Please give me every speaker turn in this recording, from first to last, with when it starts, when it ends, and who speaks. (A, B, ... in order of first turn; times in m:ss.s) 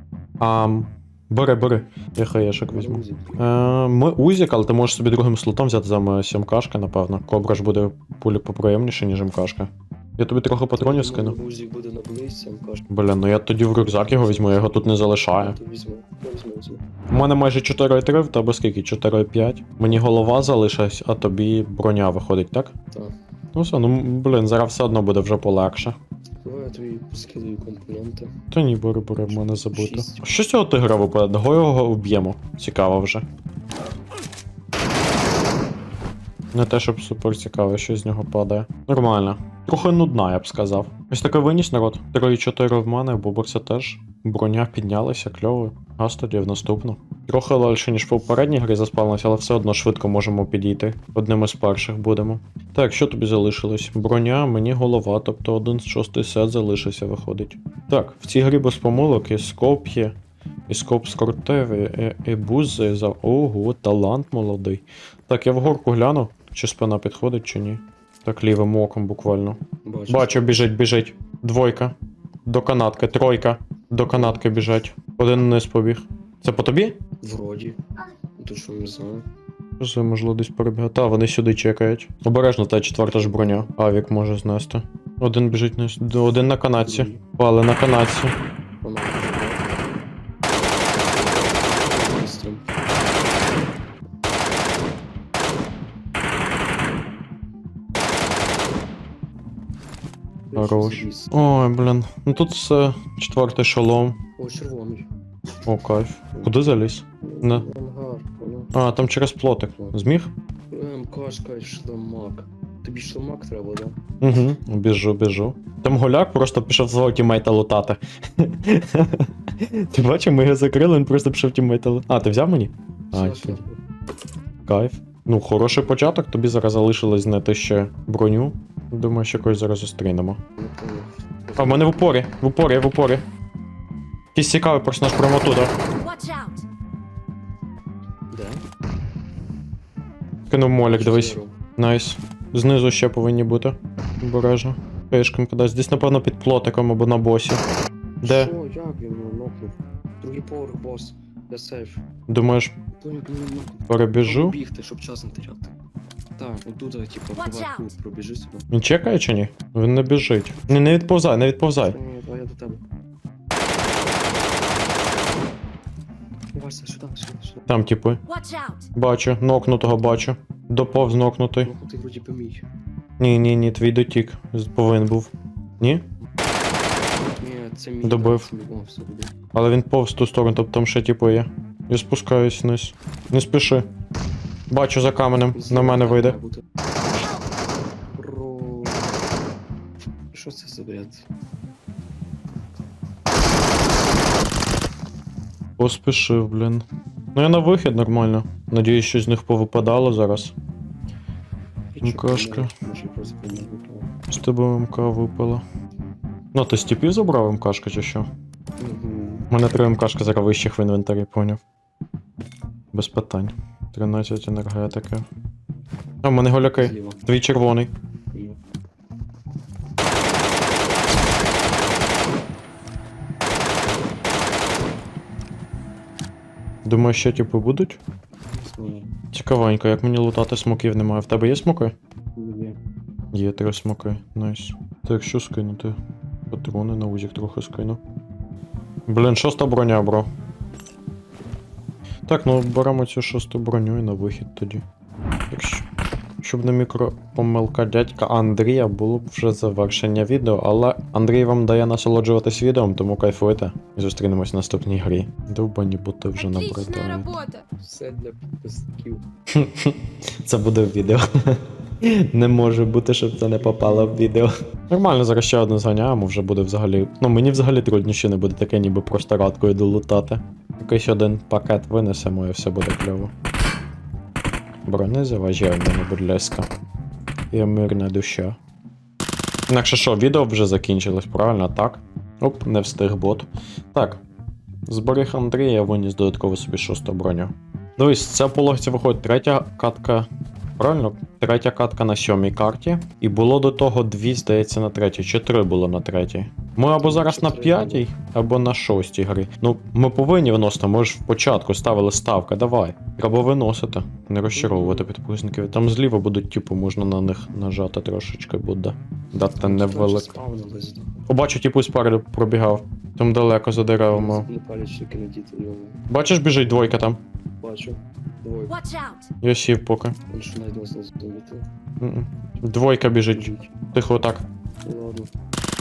0:00.4-0:11.4 A
0:02.7-0:03.5 B
0:10.8-0:12.9 B
0:12.9-0:15.6 A
0:13.8-0:16.8 B
0:17.1-0:22.7 A
0:23.5-0:26.0 A
0:26.4-0:28.4 B
0:28.5-0:33.3 A
0:29.3-0:30.3 B
0:36.5-1:00.2 A
1:00.7-1:11.9 A
1:09.8-1:10.6 B
1:12.5-1:17.0 A
1:14.1-1:14.4 B
1:17.2-1:17.8 B
1:18.4-1:19.2 B
1:19.8-1:28.3 A
1:23.2-1:23.7 B
1:26.8-1:27.2 B
1:28.8-1:29.8 B
1:31.1-1:32.7 B
1:40.5-1:41.3 B
1:40.6-1:44.2 A
1:44.4-1:45.1 B
1:45.7-1:47.7 A
1:47.2-1:48.7 B
1:48.7-1:50.3 A
1:50.7-1:54.0 B
1:54.2-2:03.6 A
2:03.1-2:03.8 B
2:04.7-2:10.4 A
2:10.6-2:12.0 B
2:11.6-2:13.2 A
2:14.4-2:15.7 A
2:16.0-2:16.6 C
2:18.3-2:18.6 B
2:20.5-2:27.6 A
2:20.8-2:21.5 B
2:28.2-2:28.5 A
2:28.2-2:32.0 B
2:32.3-2:32.8 A
2:33.0-2:35.7 B
2:33.9-2:34.6 A
2:36.4-2:38.7 B
2:38.7-2:42.0 A
2:41.8-2:42.8 B
2:46.5-2:47.7 B
2:47.7-2:48.2 A
2:48.3-2:48.9 C
2:48.9-2:51.7 A
2:51.6-2:52.6 B
2:53.2-2:56.1 A
2:57.4-2:59.3 B
2:58.0-2:58.5 A
2:59.5-3:03.9 A
3:04.7-3:06.4 A
3:05.5-3:06.6 B
3:08.2-3:09.2 B
3:10.3-3:11.3 B
3:15.8-3:20.5 A
3:21.9-3:24.1 B
3:22.0-3:22.7 A
3:24.3-3:25.6 A
3:26.5-3:28.3 A
3:28.8-3:29.5 B
3:29.5-3:31.6 A
3:32.9-3:35.3 A
3:36.2-3:37.9 A
3:36.8-3:37.2 B
3:46.8-3:48.0 A
3:48.5-3:49.1 B
3:49.3-3:51.9 A
3:52.4-3:52.8 B
3:53.3-3:56.0 A
3:56.5-3:58.0 A
3:59.1-4:00.3 A
4:02.3-4:04.8 A
4:05.5-4:05.8 A
4:06.4-4:17.4 A
4:16.4-4:17.6 C
4:17.8-4:19.3 B
4:19.5-4:33.3 A
4:34.9-4:36.7 A
4:37.5-4:38.6 A
4:39.7-4:44.2 A
4:44.9-4:50.3 A
4:50.8-5:10.3 A
4:57.0-4:58.1 B
5:04.5-5:05.1 B
5:09.6-5:11.2 B
5:11.3-5:14.5 A
5:14.1-5:16.0 B
5:16.1-5:17.2 A
5:17.6-5:18.9 B
5:18.8-5:19.2 C
5:19.4-5:20.2 A
5:20.3-5:21.6 B
5:22.0-5:24.5 A
5:23.3-5:23.7 B
5:24.8-5:25.3 B